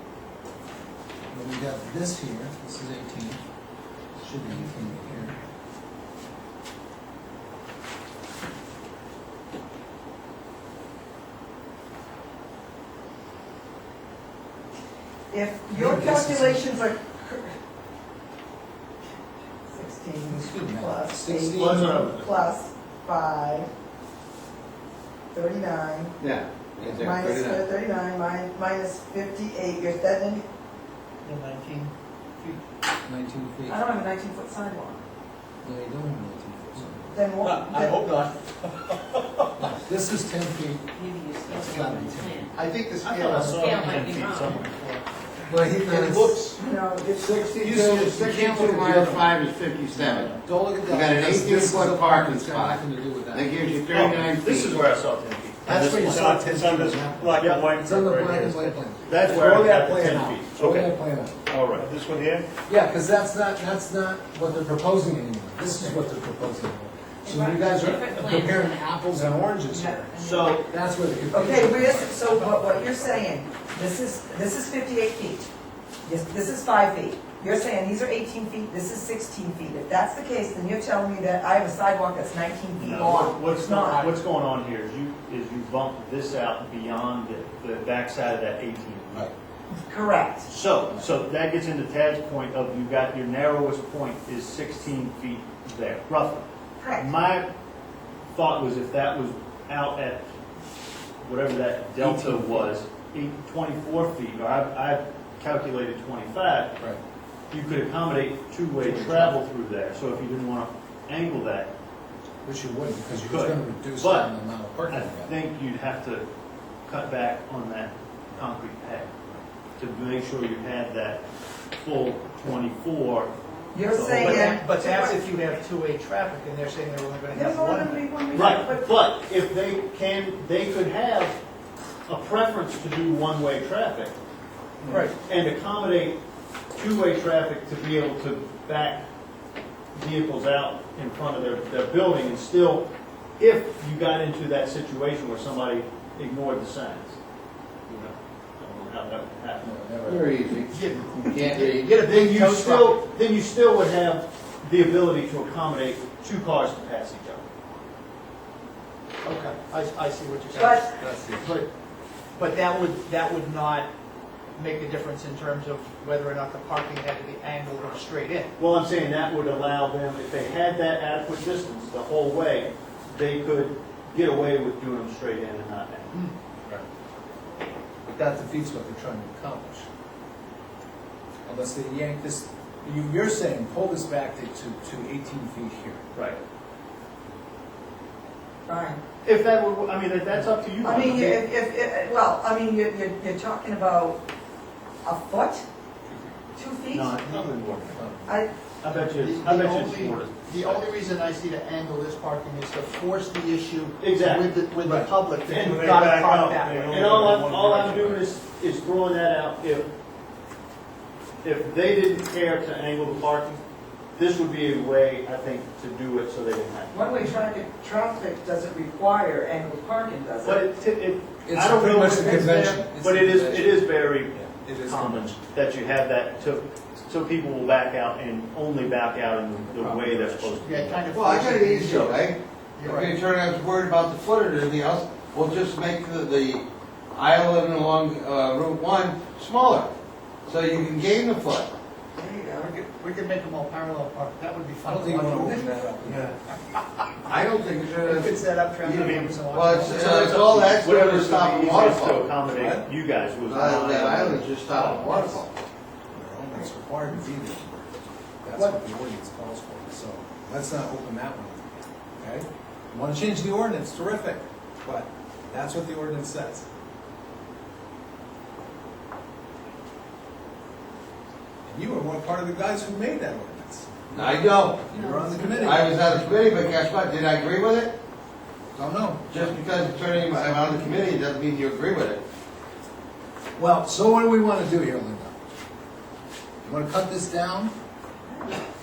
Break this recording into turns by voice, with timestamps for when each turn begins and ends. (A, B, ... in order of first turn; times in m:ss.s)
0:01.3-0:03.4 A
0:04.2-0:05.4 A
0:15.3-0:17.5 B
0:15.7-0:16.6 A
0:19.7-0:23.7 B
0:20.2-0:21.9 A
0:21.5-0:22.3 C
0:25.3-0:26.2 B
0:26.2-0:27.6 D
0:26.9-0:30.4 B
0:31.2-0:32.6 E
0:33.0-0:33.8 A
0:33.7-0:35.0 B
0:35.6-0:37.2 A
0:37.1-0:38.0 B
0:37.4-0:39.8 E
0:39.6-0:40.9 A
0:40.9-0:42.5 F
0:41.4-0:42.5 A
0:42.5-0:43.8 E
0:43.0-0:45.0 C
0:43.5-0:44.7 F
0:45.5-0:46.6 A
0:46.6-0:47.4 B
0:47.1-0:52.8 D
0:47.6-0:49.4 A
0:49.9-0:53.6 A
0:53.3-0:54.8 D
0:53.9-1:00.9 C
0:55.6-1:01.4 A
1:01.5-1:02.4 C
1:02.7-1:13.2 A
1:07.2-1:08.8 F
1:09.7-1:10.6 B
1:10.2-1:10.6 C
1:11.3-1:15.5 B
1:16.0-1:24.2 B
1:22.8-1:29.3 C
1:29.7-1:30.5 B
1:30.5-1:37.5 C
1:36.8-1:37.1 B
1:38.3-1:40.3 C
1:41.2-1:46.8 C
1:42.0-1:42.7 A
1:47.5-1:51.7 C
1:48.8-1:49.4 A
1:52.4-1:55.3 A
1:53.2-1:54.3 C
1:54.9-1:56.2 C
1:56.9-1:59.1 C
1:59.8-2:01.2 C
2:01.8-2:03.3 C
2:03.7-2:05.1 B
2:03.9-2:04.5 C
2:04.1-2:08.0 E
2:07.3-2:08.9 B
2:08.3-2:11.4 C
2:12.1-2:14.1 C
2:14.8-2:15.1 E
2:14.9-2:16.2 C
2:16.8-2:19.0 C
2:19.9-2:22.9 C
2:23.4-2:27.2 C
2:27.9-2:29.7 C
2:29.6-2:30.2 A
2:30.0-2:32.0 D
2:30.7-2:33.0 E
2:32.0-2:37.4 C
2:39.2-2:41.7 E
2:40.5-2:41.5 A
2:40.5-2:40.8 B
2:42.4-2:43.9 E
2:44.5-2:48.5 E
2:48.6-2:56.3 C
2:58.0-2:59.9 A
3:01.4-3:06.0 A
3:06.1-3:06.4 C
3:08.6-3:09.0 B
3:09.2-3:11.4 C
3:10.8-3:14.2 B
3:15.0-3:15.6 B
3:16.1-3:16.3 A
3:16.5-3:17.2 B
3:16.9-3:18.0 C
3:17.9-3:18.3 A
3:18.2-3:18.5 B
3:18.8-3:20.8 C
3:18.8-3:27.4 E
3:24.0-3:24.5 C
3:24.8-3:25.1 A
3:25.5-3:29.9 C
3:27.0-3:28.1 A
3:31.4-3:33.6 C
3:34.2-3:37.0 C
3:36.9-3:40.6 B
3:40.4-3:50.9 C
3:41.4-3:45.4 A
3:49.7-3:50.7 A
3:50.6-3:52.2 E
3:51.1-3:59.9 D
3:51.8-3:52.2 C
3:52.8-3:53.2 E
4:00.4-4:01.7 D
4:02.2-4:02.7 B
4:02.5-4:05.7 E
4:04.8-4:06.3 A
4:06.0-4:06.3 D
4:07.2-4:12.3 D
4:08.0-4:10.6 E
4:10.0-4:15.4 C
4:12.4-4:12.8 A
4:13.4-4:15.5 D
4:16.1-4:26.6 A
4:31.6-4:36.3 A
4:34.1-4:34.8 D
4:35.5-4:37.9 D
4:38.7-4:39.6 A
4:39.3-4:42.2 D
4:43.6-4:45.4 A
4:46.6-4:47.7 A
4:48.3-4:48.6 B